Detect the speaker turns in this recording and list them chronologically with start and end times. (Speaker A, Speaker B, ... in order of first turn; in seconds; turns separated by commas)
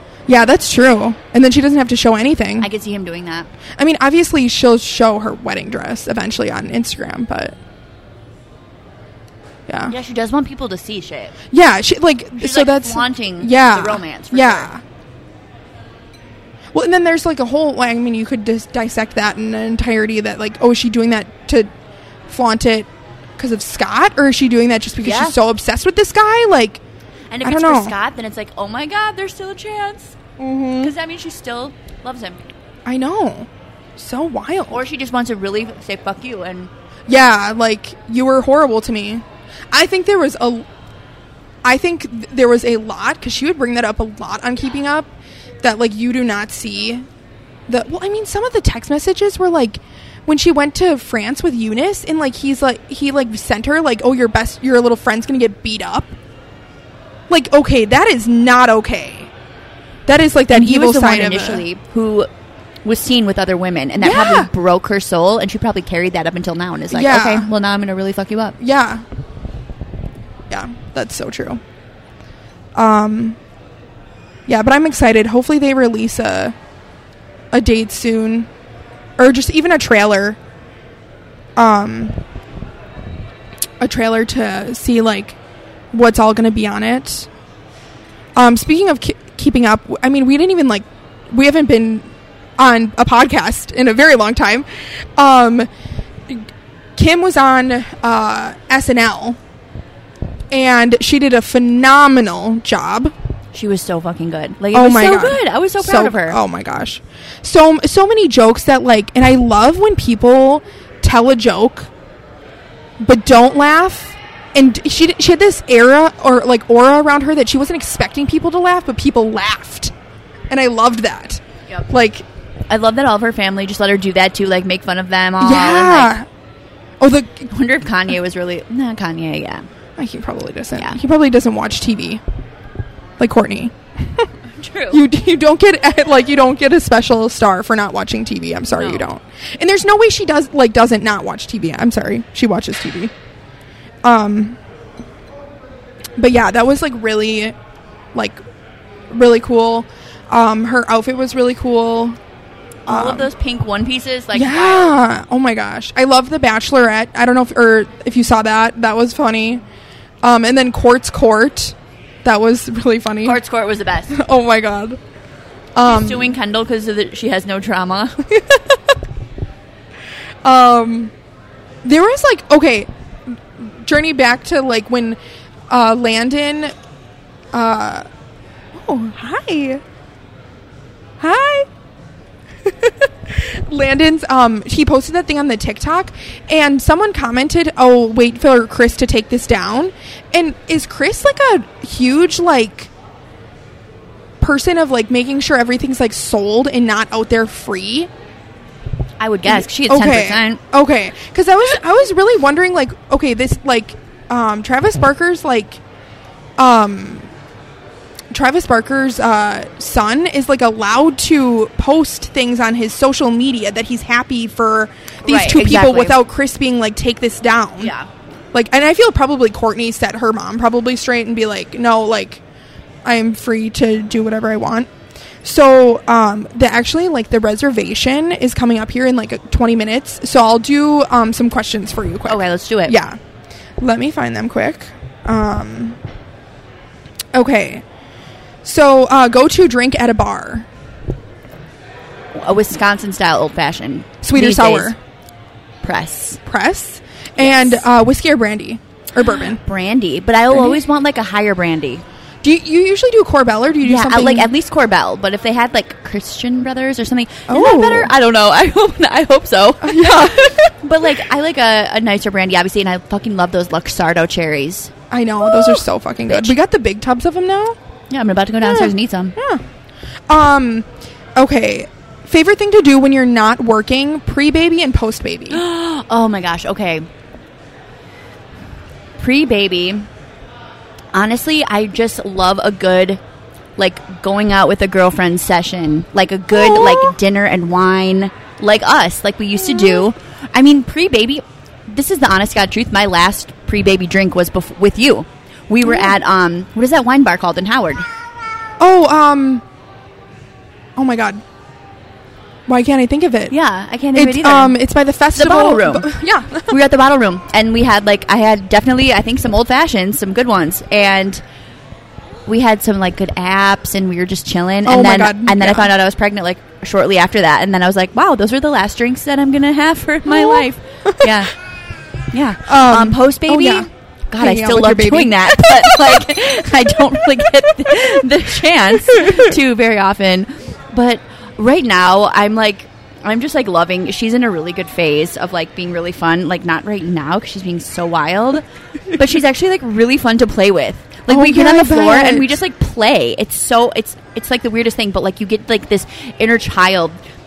Speaker A: 0.3-2.7, Speaker B: 2.6-3.5, Speaker A: 3.8-7.5, Speaker A: 9.7-9.9, Speaker B: 9.9-11.3, Speaker A: 11.5-14.8, Speaker B: 12.4-14.7, Speaker A: 16.7-21.7, Speaker A: 22.3-26.8, Speaker B: 25.0-25.4, Speaker B: 27.3-30.2, Speaker A: 27.4-27.9, Speaker A: 30.4-30.9, Speaker B: 30.8-32.4, Speaker A: 32.9-34.8, Speaker B: 34.7-36.7, Speaker A: 37.1-40.7, Speaker A: 41.6-45.1, Speaker A: 45.6-47.1, Speaker A: 47.7-56.2, Speaker A: 57.3-59.3, Speaker A: 60.1-61.6, Speaker B: 60.5-62.3, Speaker B: 62.9-68.6, Speaker A: 64.0-64.5, Speaker A: 66.9-67.5, Speaker A: 68.6-69.0, Speaker A: 70.5-71.6, Speaker A: 72.8-73.4, Speaker A: 74.5-76.6, Speaker A: 77.5-78.5, Speaker A: 79.2-80.4, Speaker A: 81.6-82.2, Speaker A: 83.8-85.4, Speaker A: 85.9-87.3, Speaker A: 88.4-92.1, Speaker A: 92.6-95.7, Speaker A: 96.3-99.4, Speaker A: 100.5-103.1, Speaker B: 103.5-106.4, Speaker A: 104.7-111.9, Speaker A: 113.0-119.9, Speaker A: 120.5-122.3, Speaker B: 122.7-126.2, Speaker A: 125.4-126.3, Speaker A: 127.0-127.5, Speaker B: 127.5-129.7, Speaker A: 130.0-132.2, Speaker A: 133.2-134.3, Speaker B: 134.6-135.0, Speaker A: 134.9-143.1, Speaker B: 138.7-139.1, Speaker A: 144.0-144.6, Speaker A: 146.2-147.6, Speaker A: 148.1-148.4, Speaker A: 149.1-152.2, Speaker B: 152.9-154.9, Speaker A: 152.9-153.3, Speaker A: 154.3-159.6, Speaker A: 160.2-163.4, Speaker B: 163.2-164.2, Speaker A: 164.1-165.0, Speaker A: 165.8-166.3, Speaker B: 165.8-168.6, Speaker A: 170.4-171.1, Speaker A: 171.8-175.2, Speaker A: 175.7-176.7, Speaker A: 177.5-178.1, Speaker A: 178.7-179.8, Speaker A: 181.2-181.7, Speaker A: 182.6-192.9, Speaker A: 194.4-198.1, Speaker B: 199.2-200.6, Speaker A: 199.5-205.8, Speaker A: 206.6-207.3, Speaker A: 208.3-217.9, Speaker B: 215.2-216.2, Speaker B: 217.8-218.1, Speaker A: 218.5-222.4, Speaker A: 223.1-224.9, Speaker A: 225.4-233.2, Speaker B: 232.3-233.0, Speaker A: 233.8-236.0, Speaker A: 237.3-237.8, Speaker A: 238.6-240.7, Speaker B: 242.3-244.9, Speaker A: 244.2-245.0, Speaker B: 245.8-246.4, Speaker A: 246.5-249.6, Speaker B: 247.4-247.8, Speaker B: 249.6-252.0, Speaker A: 250.5-250.8, Speaker A: 252.4-254.5, Speaker B: 253.8-264.9, Speaker A: 257.5-258.1, Speaker A: 259.8-260.7, Speaker A: 265.1-267.8, Speaker B: 265.4-266.6, Speaker B: 268.1-269.4, Speaker A: 268.6-269.6, Speaker A: 270.3-275.6, Speaker B: 275.5-277.1, Speaker B: 279.2-280.1, Speaker B: 281.1-283.2, Speaker B: 283.8-298.1, Speaker A: 286.5-287.1, Speaker A: 295.8-296.1, Speaker A: 298.8-299.6, Speaker A: 301.0-301.4, Speaker A: 302.7-303.5, Speaker B: 303.5-304.8, Speaker A: 304.1-306.7, Speaker B: 305.3-306.1, Speaker B: 306.7-311.4, Speaker B: 312.5-321.5, Speaker A: 314.9-315.9, Speaker A: 320.3-321.3, Speaker B: 322.3-347.1, Speaker A: 322.7-326.2, Speaker A: 329.2-329.4, Speaker A: 341.3-342.6